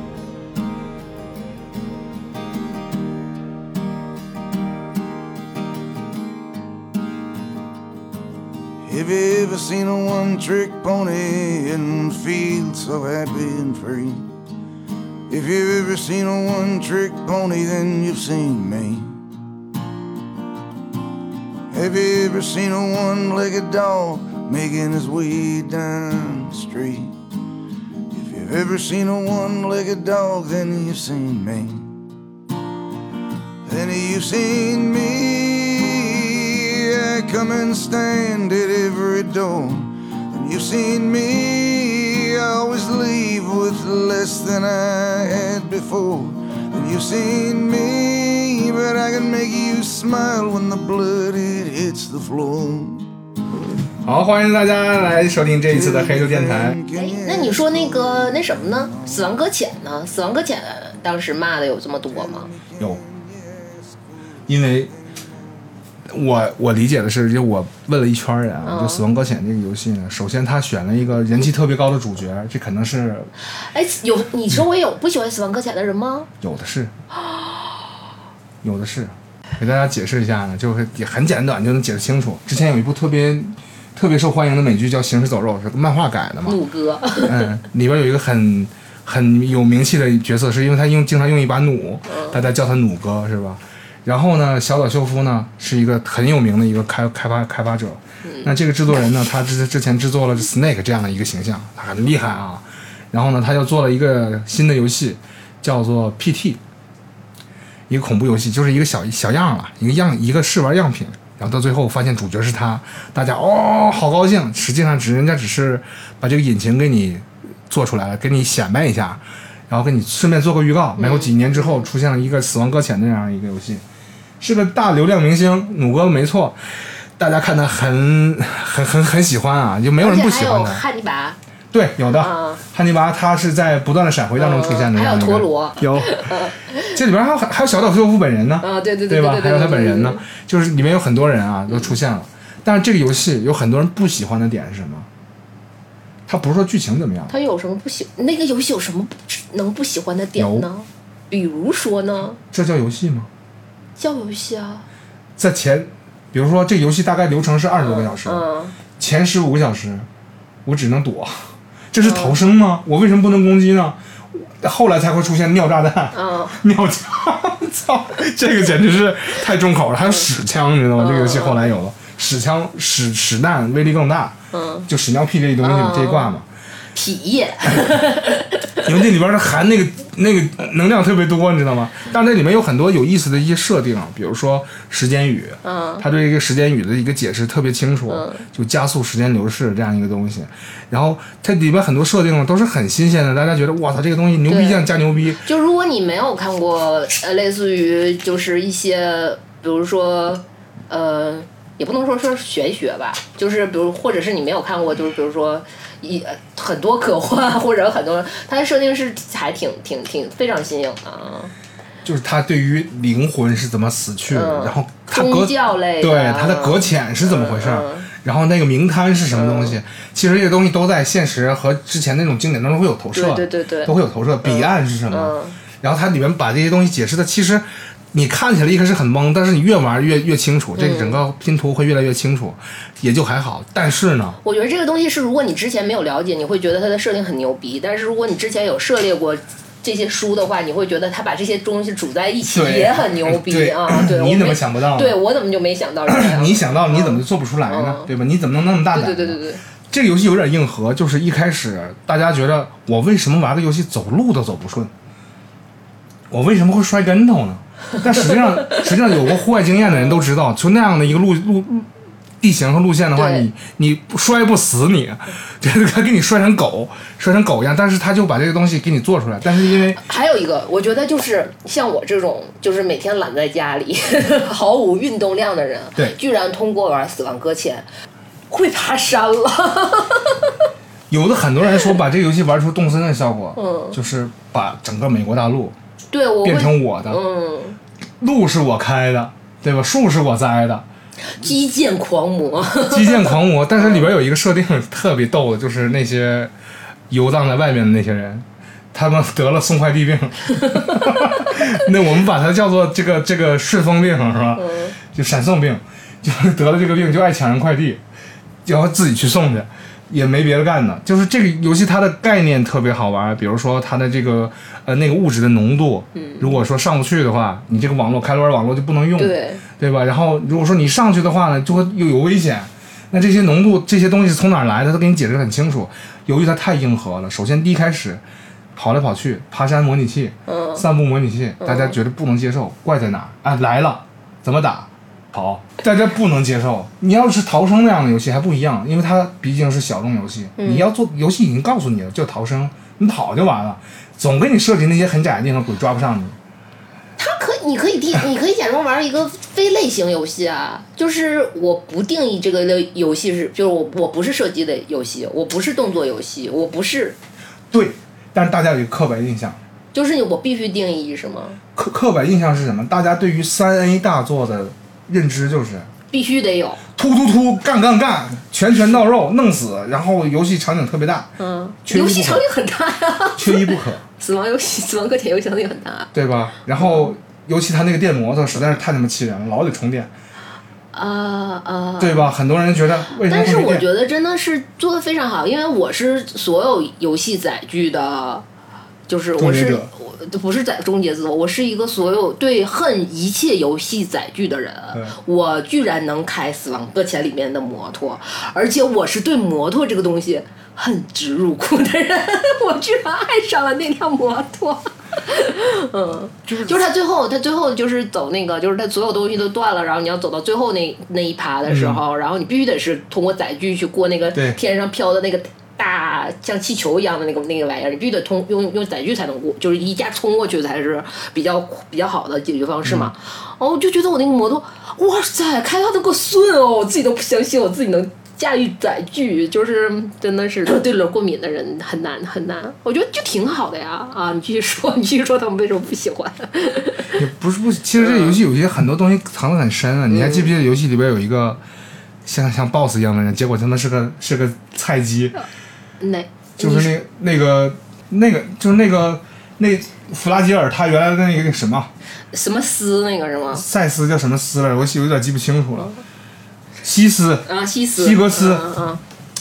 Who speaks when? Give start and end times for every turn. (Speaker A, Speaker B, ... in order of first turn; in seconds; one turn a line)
Speaker A: 8.8-14.3
Speaker A: 15.3-19.2
Speaker A: 21.7-27.1
Speaker A: 28.1-31.9
Speaker A: 33.6-53.1
Speaker B: 54.0-56.8
Speaker A: 55.7-59.3
Speaker C: 56.9-62.5
Speaker A: 62.1-64.2
Speaker B: 64.5-64.9
Speaker B: 66.1-73.3
Speaker C: 68.6-69.0
Speaker C: 73.6-76.3
Speaker B: 76.4-76.9
Speaker C: 77.2-77.7
Speaker B: 78.6-86.6
Speaker C: 86.4-87.5
Speaker B: 87.2-106.6
Speaker C: 92.1-92.4
Speaker C: 98.2-98.5
Speaker B: 107.9-123.8
Speaker C: 121.0-121.9
Speaker B: 124.4-130.8
Speaker C: 130.0-131.4
Speaker B: 131.7-136.3
Speaker C: 132.2-132.6
Speaker C: 134.4-137.0
Speaker B: 136.9-145.1
Speaker C: 138.6-140.2
Speaker B: 146.3-147.3
Speaker C: 147.3-152.4
Speaker B: 150.4-150.7
Speaker B: 152.5-153.3
Speaker C: 154.0-154.8
Speaker B: 155.4-158.4
Speaker C: 157.8-158.8
Speaker B: 159.0-160.1
Speaker B: 160.6-176.4
Speaker C: 162.0-162.4
Speaker C: 166.1-166.6
Speaker C: 170.9-171.7
Speaker C: 174.5-174.9
Speaker C: 175.6-176.3
Speaker C: 176.9-179.0
Speaker B: 178.8-195.4
Speaker C: 185.6-186.0
Speaker C: 188.1-188.4
Speaker C: 194.5-194.9
Speaker C: 195.4-211.5
Speaker B: 212.0-234.4
Speaker C: 214.3-218.1
Speaker C: 219.3-219.8
Speaker C: 223.1-225.6
Speaker C: 230.8-231.2
Speaker C: 234.4-248.1
Speaker B: 242.5-245.2
Speaker B: 246.1-254.9
Speaker C: 248.9-249.6
Speaker B: 256.3-261.9
Speaker C: 258.1-258.8
Speaker C: 259.8-260.2
Speaker B: 262.4-270.0
Speaker C: 263.1-263.5
Speaker C: 269.9-277.9
Speaker C: 278.5-280.5
Speaker B: 281.1-285.8
Speaker C: 283.6-284.0
Speaker C: 286.1-287.8
Speaker B: 286.4-287.2
Speaker B: 288.2-290.8
Speaker C: 291.3-294.0
Speaker B: 292.9-296.5
Speaker B: 297.1-308.0
Speaker C: 300.5-300.9
Speaker C: 304.6-304.9
Speaker B: 308.6-328.2
Speaker C: 316.1-316.6
Speaker C: 319.2-319.6
Speaker B: 328.8-346.4
Speaker C: 330.5-330.8
Speaker C: 331.6-332.0
Speaker C: 340.6-340.9
Speaker C: 347.2-357.2
Speaker B: 357.7-359.6
Speaker C: 359.9-361.6
Speaker B: 361.7-365.9
Speaker C: 366.1-366.8
Speaker B: 366.9-371.3
Speaker C: 371.4-376.1
Speaker B: 371.9-372.4
Speaker B: 373.4-374.0
Speaker B: 376.1-380.1
Speaker C: 376.8-377.1
Speaker C: 380.9-382.3
Speaker B: 382.0-383.9
Speaker C: 383.2-388.4
Speaker C: 389.1-437.2
Speaker B: 389.4-389.9
Speaker B: 406.5-406.8
Speaker B: 411.7-412.0
Speaker B: 414.3-414.6
Speaker B: 422.8-423.1
Speaker B: 437.1-441.6
Speaker C: 438.0-438.4
Speaker C: 440.1-440.5
Speaker B: 442.2-445.4
Speaker C: 446.0-446.9
Speaker B: 446.6-451.9
Speaker C: 452.3-453.6
Speaker B: 453.5-455.9
Speaker B: 456.8-458.7
Speaker C: 457.4-459.0